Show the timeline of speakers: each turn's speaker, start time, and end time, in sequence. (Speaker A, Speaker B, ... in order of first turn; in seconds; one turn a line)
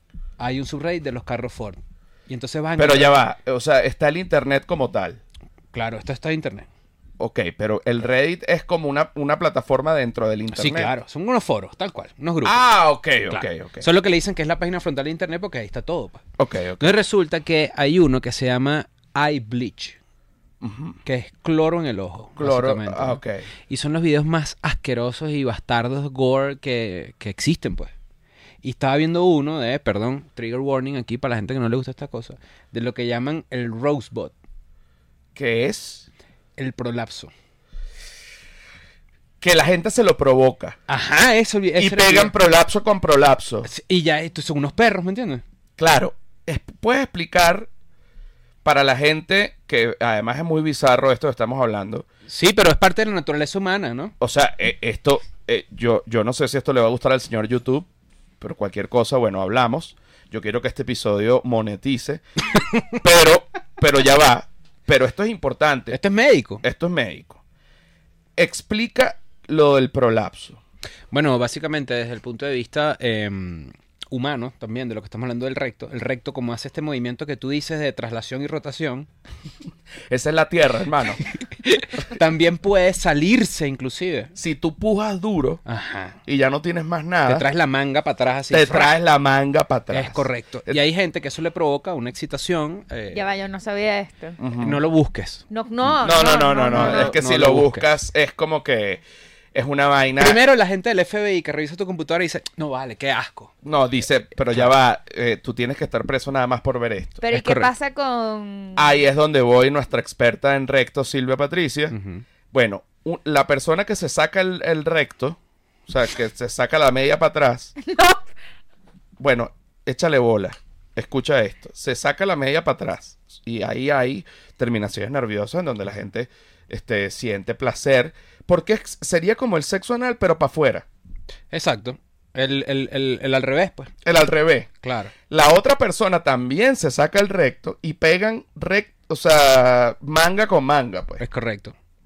Speaker A: 0.4-3.2
Speaker B: 2.8-5.2
Speaker A: 5.7-6.7
Speaker B: 7.2-10.9
Speaker A: 10.5-12.6
Speaker B: 12.4-13.9
Speaker A: 13.3-16.2
Speaker B: 16.4-16.9
Speaker A: 16.8-20.0
Speaker B: 20.6-21.0
Speaker A: 21.0-27.9
Speaker B: 22.4-23.4
Speaker A: 28.6-34.3
Speaker B: 35.3-36.1
Speaker A: 36.6-37.3
Speaker B: 39.4-40.8
Speaker A: 40.9-42.3
Speaker B: 41.8-43.7
Speaker A: 43.6-45.4
Speaker B: 45.8-47.7
Speaker B: 48.6-52.0
Speaker A: 52.3-54.1
Speaker B: 54.2-57.9
Speaker B: 58.4-62.2
Speaker B: 63.0-66.0
Speaker A: 65.9-66.6
Speaker B: 66.6-67.4
Speaker B: 68.4-70.6
Speaker A: 71.1-79.1
Speaker B: 80.1-81.2
Speaker A: 81.3-84.3
Speaker B: 84.3-85.6
Speaker A: 85.6-86.2
Speaker B: 86.2-87.5
Speaker A: 87.3-88.9
Speaker B: 88.5-90.8
Speaker A: 89.9-93.2
Speaker C: 93.1-94.4
Speaker B: 94.4-94.8
Speaker A: 94.6-95.4
Speaker C: 95.5-97.1
Speaker B: 95.9-99.0
Speaker A: 96.5-97.9
Speaker B: 99.5-100.4
Speaker A: 100.2-103.5
Speaker B: 103.6-107.2
Speaker C: 107.2-108.9
Speaker A: 107.3-107.7
Speaker B: 108.8-111.9
Speaker A: 111.9-112.2
Speaker B: 112.5-117.7
Speaker C: 117.9-118.2
Speaker B: 119.2-130.8
Speaker A: 131.5-133.9
Speaker B: 134.0-134.7
Speaker A: 134.8-135.1
Speaker B: 135.3-141.2
Speaker A: 141.2-141.7